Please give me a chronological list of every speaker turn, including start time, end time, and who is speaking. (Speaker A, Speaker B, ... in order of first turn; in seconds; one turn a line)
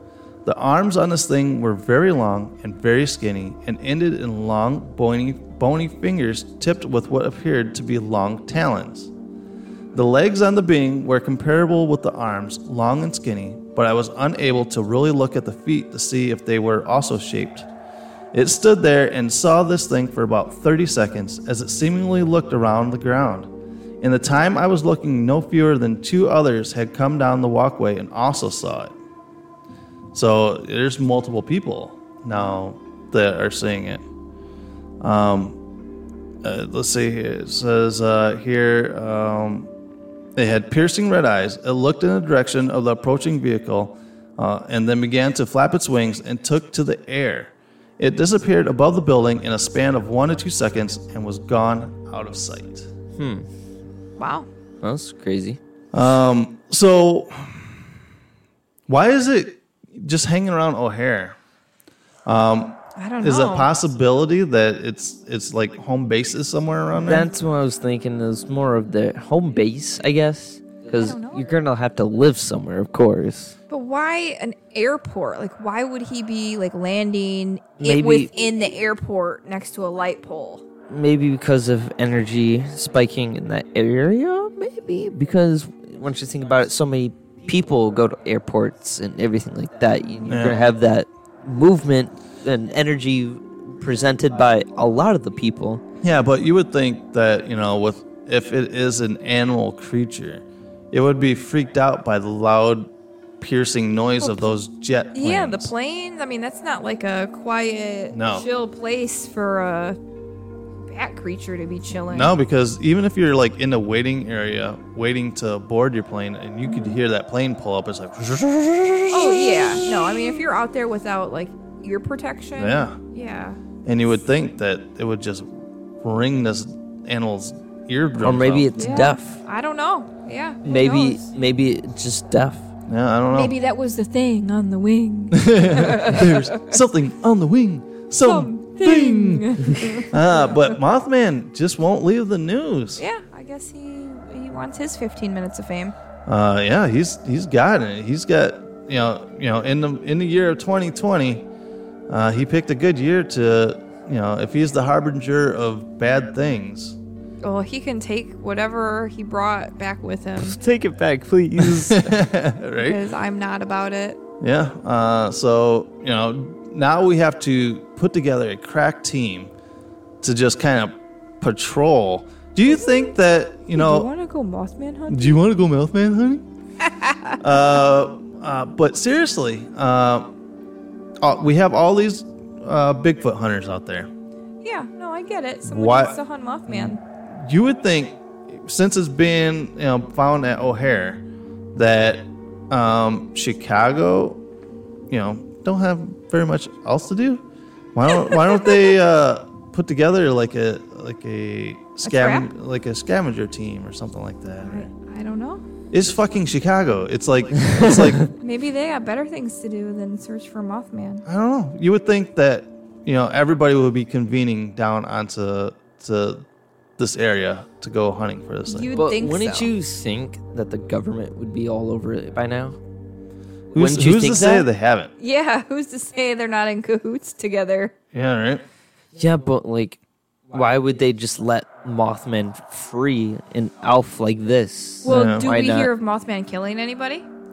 Speaker A: 0.4-9.1
Speaker A: 9.9-17.7
Speaker A: 18.3-23.5
Speaker A: 24.0-28.9
Speaker A: 30.1-34.0
Speaker A: 35.0-35.6
Speaker A: 36.4-39.7
Speaker A: 40.4-52.9
Speaker B: 53.2-53.5
Speaker C: 54.2-54.5
Speaker B: 54.8-55.6
Speaker A: 55.9-57.7
Speaker A: 58.9-61.4
Speaker A: 62.2-67.3
Speaker C: 63.0-63.7
Speaker B: 67.0-73.5
Speaker C: 70.9-71.5
Speaker C: 73.7-80.6
Speaker B: 77.8-78.3
Speaker B: 80.9-95.8
Speaker A: 90.2-90.6
Speaker A: 96.0-105.7
Speaker C: 104.2-104.5
Speaker C: 105.1-110.0
Speaker A: 108.1-108.5
Speaker C: 110.9-112.3
Speaker A: 112.1-120.4
Speaker C: 116.6-117.0
Speaker C: 119.1-123.6
Speaker A: 122.5-123.0
Speaker A: 123.8-125.5
Speaker A: 126.0-129.1
Speaker B: 128.2-129.4
Speaker C: 128.8-131.2
Speaker B: 130.6-132.7
Speaker A: 132.9-133.6
Speaker C: 133.3-136.5
Speaker A: 135.3-143.0
Speaker C: 138.2-140.8
Speaker C: 143.0-145.9
Speaker A: 146.2-151.5
Speaker A: 152.1-157.0
Speaker C: 157.4-160.6
Speaker B: 160.4-162.1
Speaker A: 161.6-163.0
Speaker C: 162.8-164.2
Speaker A: 164.4-169.5
Speaker A: 170.2-174.1
Speaker C: 173.7-175.4
Speaker A: 175.1-176.4
Speaker C: 176.8-177.4
Speaker A: 177.4-180.3
Speaker A: 181.2-184.1
Speaker C: 184.6-187.0
Speaker A: 185.6-191.2
Speaker A: 191.7-194.4
Speaker A: 195.1-197.4
Speaker A: 197.9-204.9
Speaker C: 202.0-202.5
Speaker C: 204.6-205.6
Speaker A: 205.9-208.2
Speaker C: 208.3-211.2
Speaker A: 211.3-216.4
Speaker A: 217.0-218.9
Speaker C: 218.7-219.7
Speaker B: 218.9-222.8
Speaker B: 223.7-224.7
Speaker A: 223.7-225.1
Speaker C: 225.2-227.9
Speaker A: 228.1-228.6
Speaker B: 229.2-230.0
Speaker B: 230.5-235.9
Speaker C: 235.0-237.3
Speaker A: 235.1-235.5